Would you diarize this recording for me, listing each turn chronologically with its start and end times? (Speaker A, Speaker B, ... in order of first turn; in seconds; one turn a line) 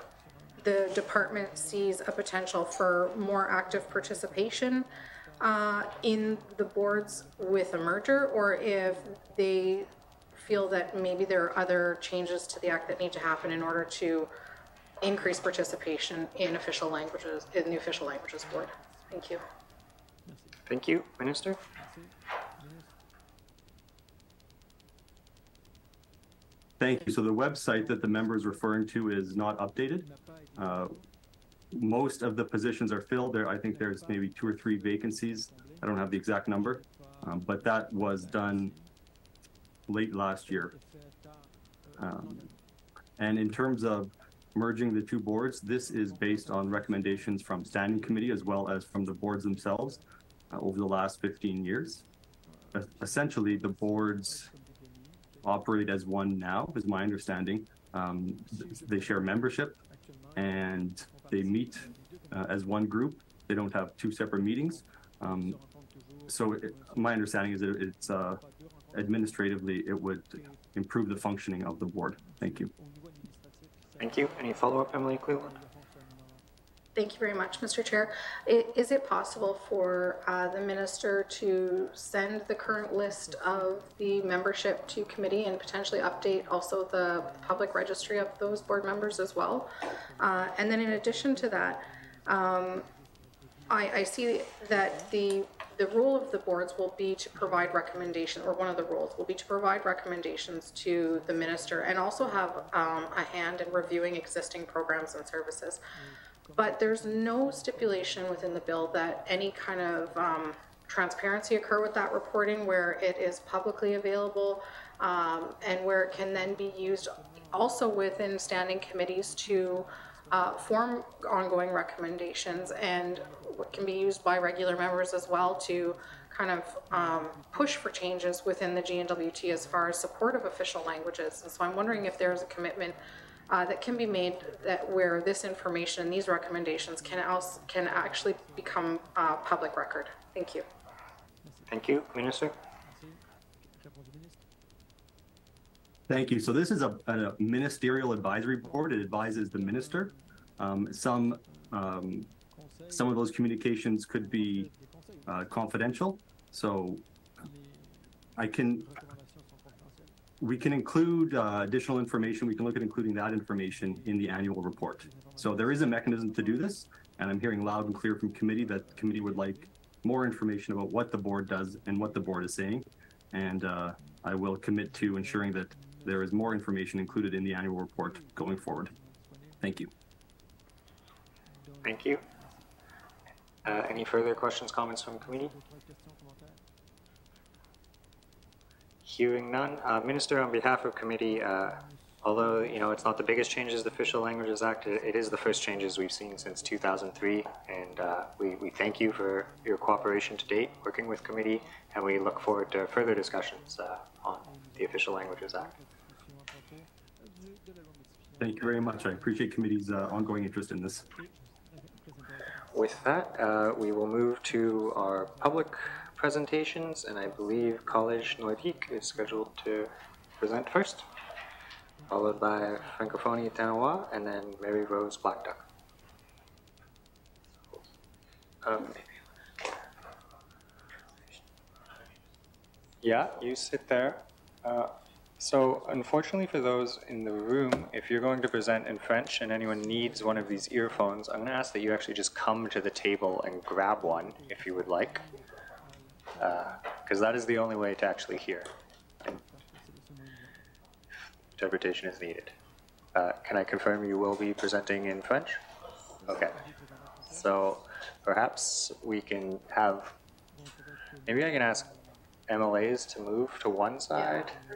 Speaker A: 0.6-14.3
Speaker A: 15.0-19.4
Speaker B: 20.3-20.5
Speaker C: 20.6-21.6
Speaker B: 21.8-22.9
Speaker D: 26.8-31.0
Speaker B: 30.1-30.6
Speaker D: 31.7-38.7
Speaker B: 35.5-35.8
Speaker B: 38.2-38.9
Speaker D: 39.9-40.7
Speaker B: 40.7-42.4
Speaker D: 42.0-42.5
Speaker D: 43.2-50.0
Speaker B: 46.1-47.3
Speaker D: 50.5-52.0
Speaker D: 52.7-54.5
Speaker B: 54.3-55.3
Speaker D: 55.4-59.8
Speaker B: 58.7-59.1
Speaker B: 59.9-60.3
Speaker D: 60.3-65.6
Speaker B: 61.1-62.2
Speaker B: 65.3-66.2
Speaker D: 66.3-72.7
Speaker B: 72.2-74.6
Speaker C: 74.0-75.6
Speaker B: 75.7-76.4
Speaker A: 77.0-92.9
Speaker B: 90.3-92.2
Speaker B: 92.8-93.2
Speaker A: 93.7-105.8
Speaker B: 101.1-103.2
Speaker A: 106.5-133.0
Speaker A: 133.5-140.6
Speaker B: 134.1-134.5
Speaker B: 137.0-138.9
Speaker B: 141.4-141.7
Speaker C: 141.7-142.6
Speaker B: 142.8-144.4
Speaker D: 146.1-152.3
Speaker B: 149.4-150.2
Speaker D: 152.9-154.7
Speaker B: 154.5-155.3
Speaker D: 155.3-157.0
Speaker B: 157.4-158.0
Speaker D: 158.4-158.9
Speaker B: 158.9-160.2
Speaker D: 160.4-178.9
Speaker B: 165.0-165.5
Speaker B: 168.7-169.7
Speaker B: 174.9-176.1
Speaker B: 178.9-179.7
Speaker D: 179.6-179.9
Speaker B: 181.5-182.6
Speaker C: 181.8-182.2
Speaker C: 183.6-185.5
Speaker B: 185.2-186.6
Speaker C: 189.0-205.7
Speaker B: 191.8-192.8
Speaker B: 193.8-194.2
Speaker B: 194.8-197.3
Speaker B: 199.1-203.8
Speaker B: 204.4-209.4
Speaker D: 208.4-211.1
Speaker B: 211.1-212.4
Speaker C: 212.7-221.1
Speaker B: 214.5-215.7
Speaker B: 217.3-219.3
Speaker C: 222.1-225.6
Speaker B: 223.1-223.4
Speaker C: 228.6-229.2
Speaker C: 233.0-245.3
Speaker B: 239.7-241.2
Speaker B: 243.9-246.8
Speaker C: 246.4-248.7
Speaker B: 249.3-250.6
Speaker C: 251.6-252.5
Speaker C: 253.1-255.6
Speaker B: 256.2-257.5
Speaker C: 256.3-256.6
Speaker C: 257.3-260.1
Speaker B: 260.6-262.1
Speaker C: 261.2-261.9
Speaker C: 262.5-264.6